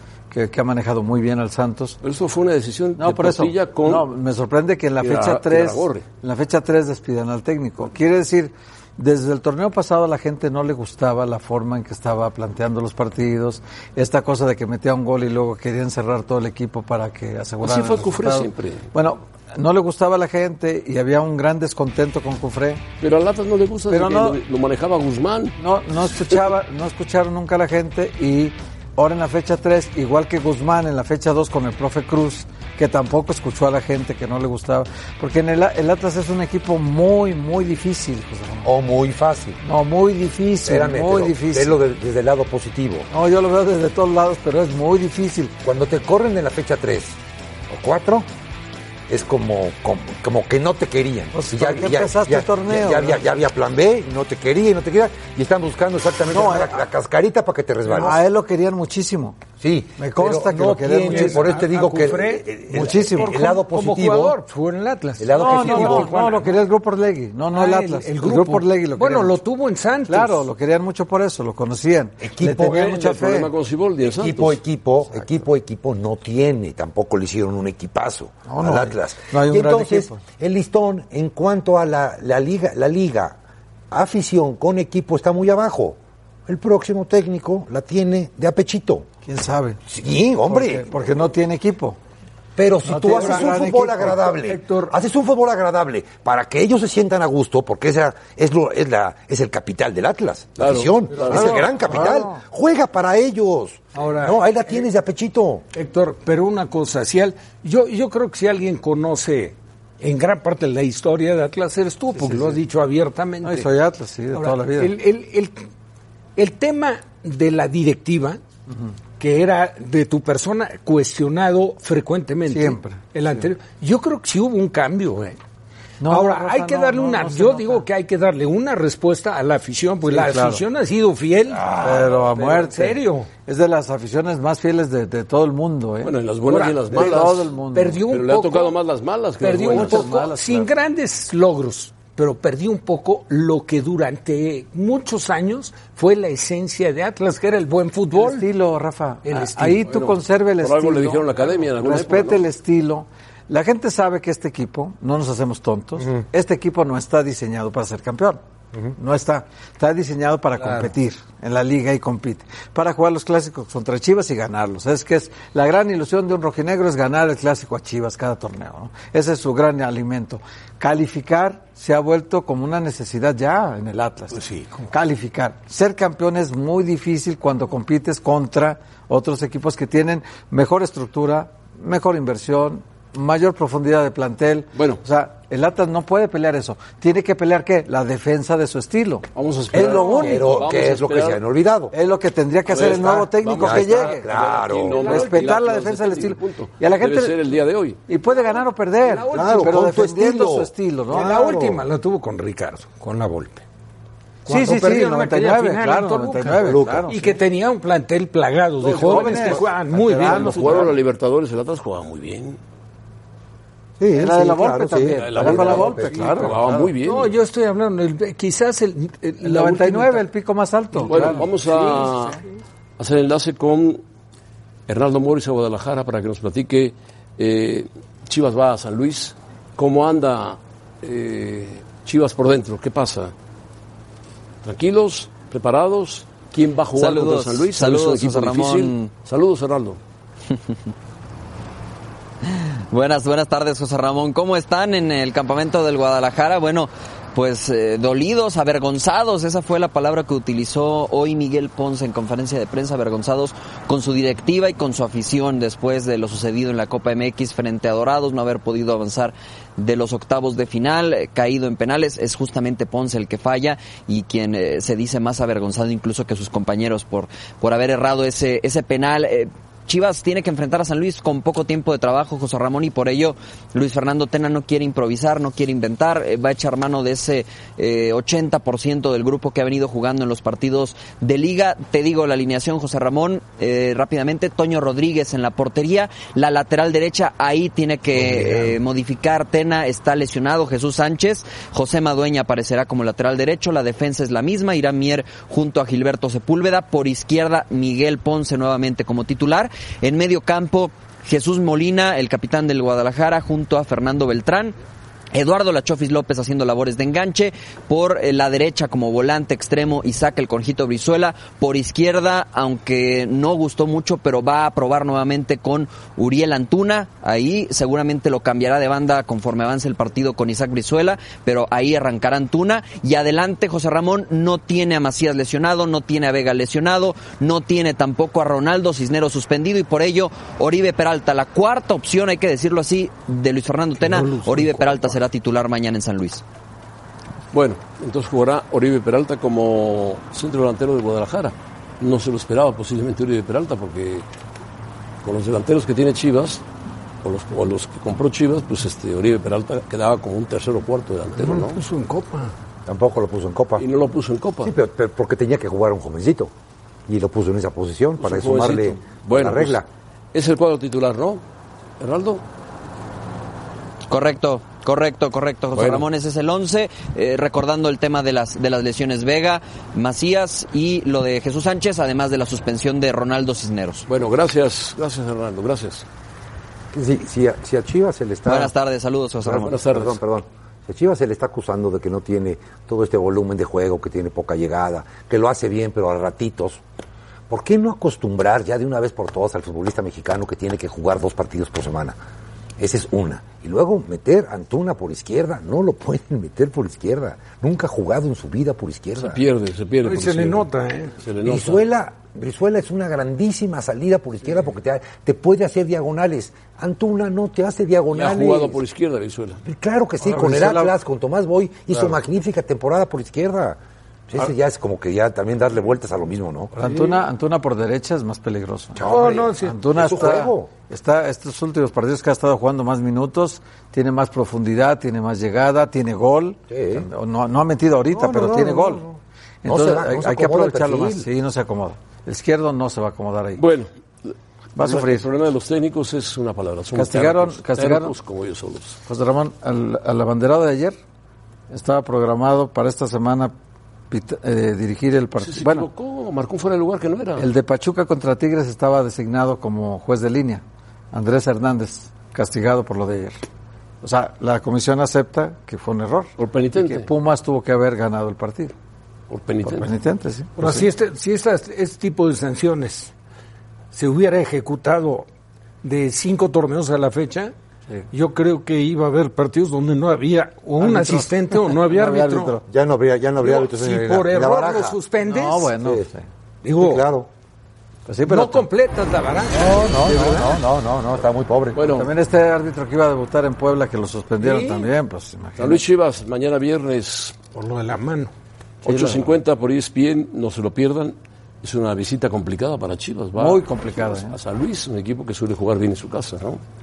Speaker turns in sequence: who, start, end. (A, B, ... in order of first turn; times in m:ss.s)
0:00.3-0:02.0 A
0:02.0-0:04.1 B
0:03.0-0:22.8 A
0:05.0-0:06.0 B
0:17.6-0:18.9 B
0:23.0-0:25.6 B
0:23.9-0:24.4 A
0:25.6-0:38.7 A
0:38.6-0:39.6 C
0:39.6-0:41.8 A
0:40.6-0:43.1 C
0:43.1-0:45.5 A
0:45.6-0:47.2 C
0:47.7-0:48.3 C
0:49.1-0:58.2 C
0:51.3-0:53.2 A
0:56.3-0:56.8 A
0:58.0-0:59.4 A
0:59.6-1:04.4 C
1:00.0-1:01.4 A
1:01.0-1:06.6 D
1:02.7-1:03.3 A
1:05.2-1:06.1 C
1:05.3-1:09.4 A
1:07.5-1:10.5 D
1:10.1-1:13.5 A
1:12.2-1:12.8 C
1:12.6-1:14.6 B
1:14.0-1:23.4 C
1:18.5-1:20.2 A
1:23.9-1:29.1 C
1:29.2-1:29.8 A
1:29.9-1:31.2 C
1:30.5-1:32.0 A
1:32.6-1:45.6 C
1:32.8-1:34.3 A
1:32.9-1:34.9 D
1:40.6-1:41.6 B
1:41.1-1:41.6 D
1:41.9-1:42.2 A
1:43.9-1:44.8 D
1:45.7-1:53.7 D
1:52.2-1:52.6 A
1:53.4-1:54.9 A
1:54.3-1:55.6 D
1:56.4-1:58.4 D
1:59.2-2:05.4 D
2:02.5-2:03.5 A
2:06.0-2:07.8 A
2:06.0-2:13.3 D
2:10.1-2:10.6 A
2:11.7-2:16.1 A
2:16.0-2:17.5 B
2:16.5-2:18.8 D
2:16.9-2:18.0 A
2:18.1-2:20.0 B
2:19.4-2:28.5 D
2:19.7-2:20.7 A
2:28.1-2:31.3 A
2:29.2-2:29.9 D
2:29.8-2:32.4 B
2:31.8-2:38.4 A
2:38.9-2:54.4 A
2:54.4-2:54.7 B
2:54.9-3:10.5 A
3:04.8-3:05.0 B
3:09.3-3:11.4 B
3:09.7-3:11.9 C
3:11.9-3:14.2 A
3:12.7-3:18.0 B
3:13.6-3:15.1 C
3:14.9-3:15.6 D
3:15.0-3:17.4 A
3:18.1-3:21.3 A
3:18.2-3:19.8 D
3:19.3-3:21.8 C
3:21.1-3:23.6 D
3:24.4-3:30.9 D
3:24.5-3:27.2 A
3:26.6-3:27.1 C
3:28.8-3:30.9 A
3:29.0-3:29.7 B
3:30.2-3:32.6 B
3:34.0-3:36.7 C
3:34.1-3:36.5 A
3:35.2-3:37.3 B
3:37.0-3:40.2 D
3:39.4-3:41.5 A
3:40.9-3:42.4 D
3:41.1-3:42.4 B
3:43.0-3:44.0 B
3:44.9-3:53.3 B
3:54.6-4:00.0 B
3:56.9-3:59.1 E
4:02.4-5:04.7 E
4:48.1-4:48.7 C
5:05.3-5:36.4 E
5:34.1-5:35.1 D
5:37.5-5:44.2 B
5:45.2-5:46.6 B
5:47.2-5:51.8 B
5:51.4-5:52.5 D
5:52.8-5:53.8 C
5:53.8-5:54.7 B
5:54.6-5:56.5 C
5:57.1-5:59.8 C
5:58.2-5:59.8 B
6:00.3-6:01.4 B
6:02.0-6:02.4 B
6:04.1-6:14.0 E
6:05.7-6:06.0 B
6:14.1-6:16.0 B
6:16.9-6:18.7 C
6:18.4-6:19.8 E
6:19.4-6:26.8 C
6:19.6-6:20.2 B
6:27.5-6:32.2 C
6:32.8-6:39.4 C
6:39.2-6:40.7 B
6:40.0-6:41.2 D
6:41.2-6:41.8 B
6:41.4-6:48.8 C
6:48.1-6:49.6 B
6:49.6-6:53.8 C
6:50.2-6:51.0 A
6:54.3-6:56.7 C
6:56.7-6:59.1 A
6:56.8-6:57.1 D
6:59.0-6:59.8 D
6:59.0-7:00.7 C
6:59.6-7:09.0 A
7:06.7-7:07.0 C
7:08.1-7:11.3 C
7:09.6-7:13.6 A
7:13.6-7:19.0 B
7:14.8-7:15.3 A
7:17.0-7:18.1 A
7:19.1-7:21.0 A
7:21.7-7:23.5 A
7:24.1-7:25.9 A
7:25.4-7:27.5 B
7:27.4-7:33.4 A
7:34.0-7:38.7 A
7:36.4-7:37.1 B
7:39.3-7:39.9 B
7:39.6-7:40.8 A
7:40.6-7:43.1 D
7:43.9-7:45.3 D
7:45.8-7:47.5 D
7:48.1-7:52.6 D
7:50.8-7:52.6 A
7:52.7-7:55.0 C
7:53.4-7:55.7 D
7:55.2-7:56.3 A
7:55.8-7:56.1 C
7:56.6-7:57.0 D
7:56.8-7:57.3 C
7:58.1-7:58.7 A
7:58.2-8:00.6 D
7:59.5-8:01.8 C
8:01.7-8:02.1 B
8:01.9-8:05.8 A
8:04.4-8:04.9 D
8:05.6-8:07.4 B
8:07.5-8:08.3 D
8:08.8-8:16.6 B
8:08.8-8:09.3 A
8:13.4-8:14.4 A